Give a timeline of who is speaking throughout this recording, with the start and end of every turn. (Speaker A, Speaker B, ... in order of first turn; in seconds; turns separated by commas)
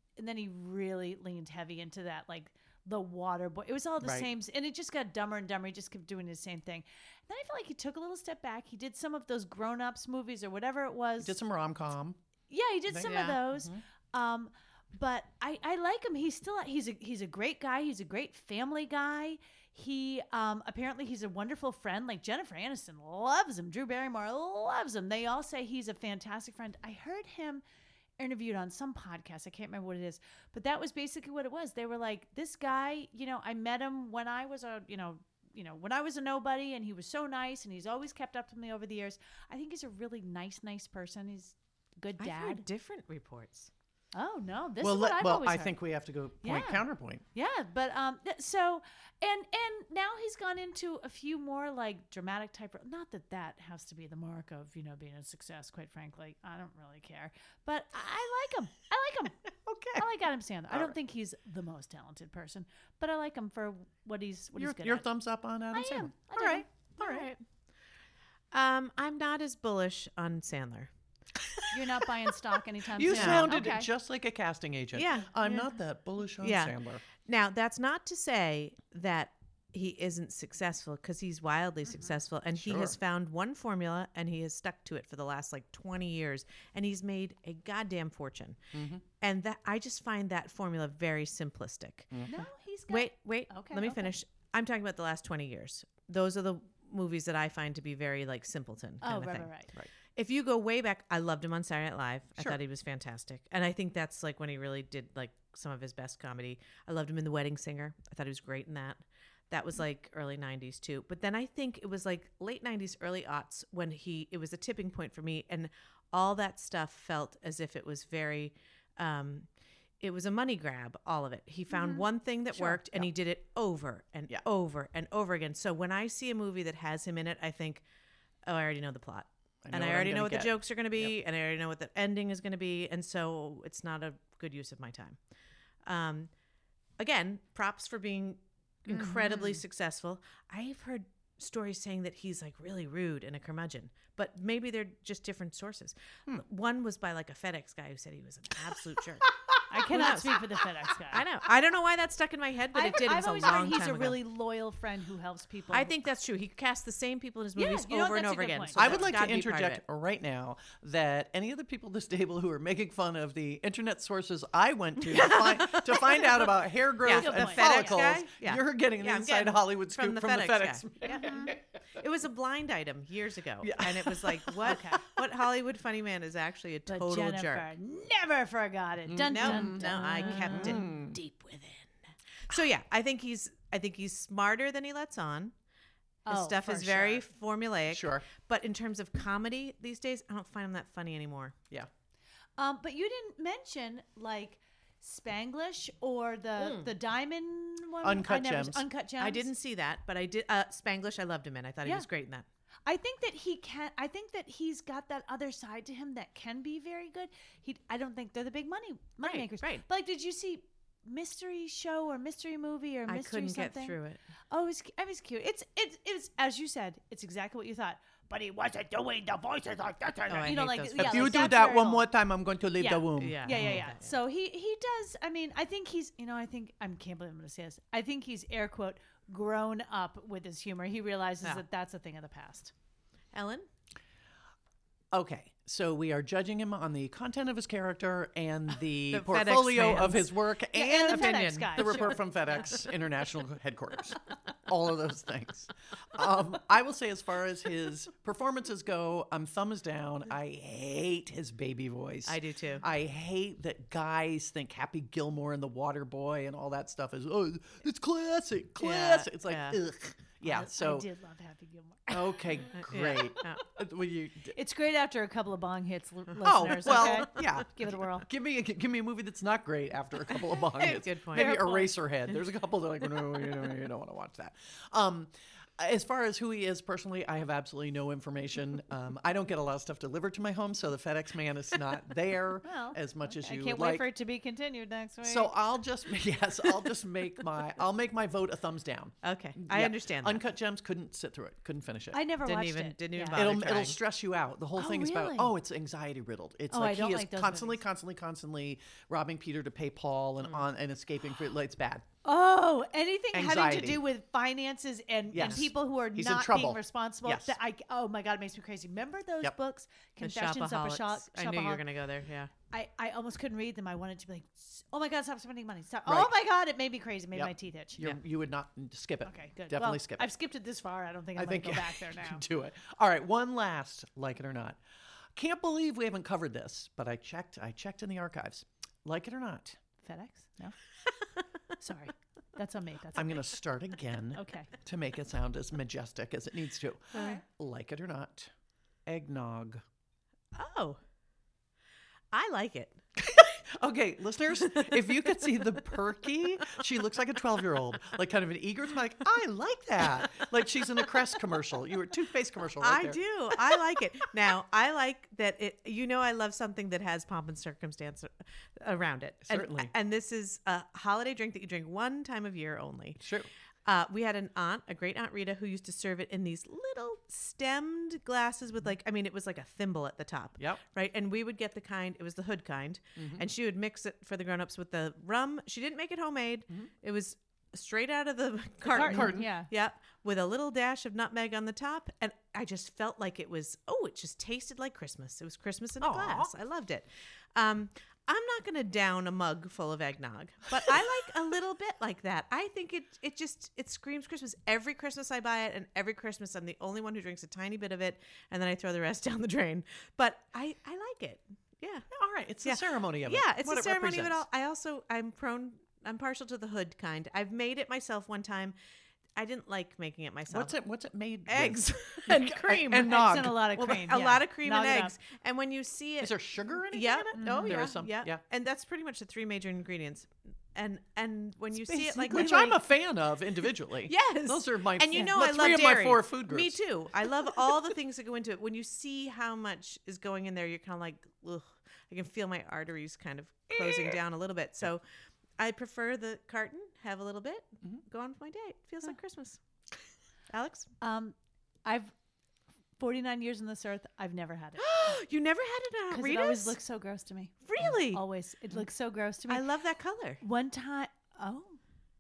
Speaker A: 0.2-11.4, Speaker B: 4.0-4.3, Speaker B: 11.2-12.2, Speaker A: 12.5-27.6, Speaker B: 12.9-13.8, Speaker C: 13.0-13.4, Speaker A: 28.2-42.6, Speaker C: 42.2-43.7, Speaker A: 44.1-45.8, Speaker B: 44.8-47.2, Speaker A: 46.4-59.4, Speaker B: 59.6-60.1, Speaker A: 60.0-65.1, Speaker B: 64.6-66.6, Speaker A: 65.7-67.3, Speaker C: 66.4-67.4, Speaker C: 68.5-72.1, Speaker A: 71.7-73.9, Speaker B: 73.0-77.0, Speaker C: 73.1-73.6, Speaker C: 74.9-75.7, Speaker C: 76.4-88.6, Speaker B: 82.5-83.0, Speaker B: 88.7-89.0, Speaker C: 89.2-92.2, Speaker A: 92.3-94.2, Speaker C: 92.9-99.5, Speaker A: 99.0-99.7, Speaker C: 100.1-119.5, Speaker C: 120.0-127.8, Speaker A: 121.7-122.0, Speaker B: 122.5-123.1, Speaker C: 128.4-135.2, Speaker B: 129.6-131.1, Speaker C: 135.8-136.3, Speaker C: 137.0-149.3, Speaker A: 139.0-139.5, Speaker B: 149.3-149.7, Speaker A: 149.7-151.3, Speaker C: 149.9-150.5, Speaker C: 151.1-154.2, Speaker A: 152.7-156.0, Speaker C: 155.7-159.8, Speaker A: 157.6-159.1, Speaker B: 158.8-171.8, Speaker C: 165.0-171.3, Speaker A: 167.1-168.0, Speaker A: 171.1-171.5, Speaker C: 171.9-177.7, Speaker B: 173.6-175.1, Speaker A: 174.7-175.1, Speaker A: 176.9-181.0, Speaker B: 179.1-181.2, Speaker C: 179.3-181.9, Speaker C: 182.5-185.5, Speaker A: 186.3-187.2, Speaker C: 186.3-191.6, Speaker B: 187.9-188.3, Speaker A: 192.6-199.5, Speaker C: 196.6-196.9, Speaker B: 198.0-198.8, Speaker C: 199.2-202.5, Speaker A: 202.9-214.0, Speaker C: 209.2-209.8, Speaker C: 213.1-214.2, Speaker A: 214.5-222.1, Speaker C: 220.3-221.7, Speaker B: 220.9-223.8, Speaker A: 222.8-232.7, Speaker C: 223.2-224.2, Speaker C: 233.3-233.7, Speaker B: 235.1-261.1, Speaker C: 239.1-240.5, Speaker A: 240.7-242.2, Speaker C: 241.1-242.2, Speaker C: 252.3-252.8, Speaker C: 258.8-259.8, Speaker A: 260.4-262.6, Speaker B: 262.1-264.6, Speaker C: 262.8-263.7, Speaker A: 264.6-268.3, Speaker C: 266.4-267.5, Speaker B: 266.4-284.1, Speaker C: 270.7-271.6, Speaker A: 271.3-272.0, Speaker A: 282.6-285.5, Speaker B: 285.2-292.2, Speaker C: 289.2-290.4, Speaker A: 292.1-293.4, Speaker C: 292.4-294.0, Speaker B: 293.3-302.1, Speaker A: 294.8-295.5, Speaker A: 296.7-297.8, Speaker A: 302.2-311.8, Speaker B: 303.3-304.0, Speaker B: 305.3-307.6, Speaker C: 310.2-312.5, Speaker A: 312.7-318.0, Speaker B: 316.1-316.3, Speaker B: 317.3-320.3, Speaker A: 319.2-322.4, Speaker B: 321.4-324.8, Speaker B: 325.4-329.8, Speaker A: 330.0-330.8, Speaker A: 331.8-333.6, Speaker B: 333.1-338.5, Speaker A: 334.4-334.7, Speaker A: 337.1-337.4, Speaker C: 337.1-337.4, Speaker B: 339.1-339.8, Speaker C: 340.5-341.0, Speaker C: 342.3-343.0, Speaker B: 343.2-353.2, Speaker C: 352.8-363.2, Speaker B: 359.5-359.9, Speaker B: 363.2-363.5, Speaker C: 363.9-402.1, Speaker B: 370.6-370.8, Speaker B: 373.2-373.5, Speaker B: 378.9-379.5, Speaker A: 378.9-379.7, Speaker B: 386.0-386.5, Speaker B: 402.1-404.4, Speaker C: 402.6-408.8, Speaker C: 409.4-410.7, Speaker B: 410.5-413.7, Speaker C: 411.5-416.4, Speaker A: 413.0-415.1, Speaker B: 416.2-418.4, Speaker C: 416.9-422.8, Speaker A: 417.3-417.8, Speaker B: 421.9-426.8, Speaker A: 422.2-422.8, Speaker C: 424.1-435.0, Speaker B: 433.8-434.2, Speaker C: 435.6-440.9, Speaker A: 441.0-442.1, Speaker A: 443.0-445.2, Speaker C: 444.8-446.8, Speaker A: 446.1-449.7, Speaker C: 447.6-448.2, Speaker C: 449.5-450.4, Speaker A: 450.4-451.8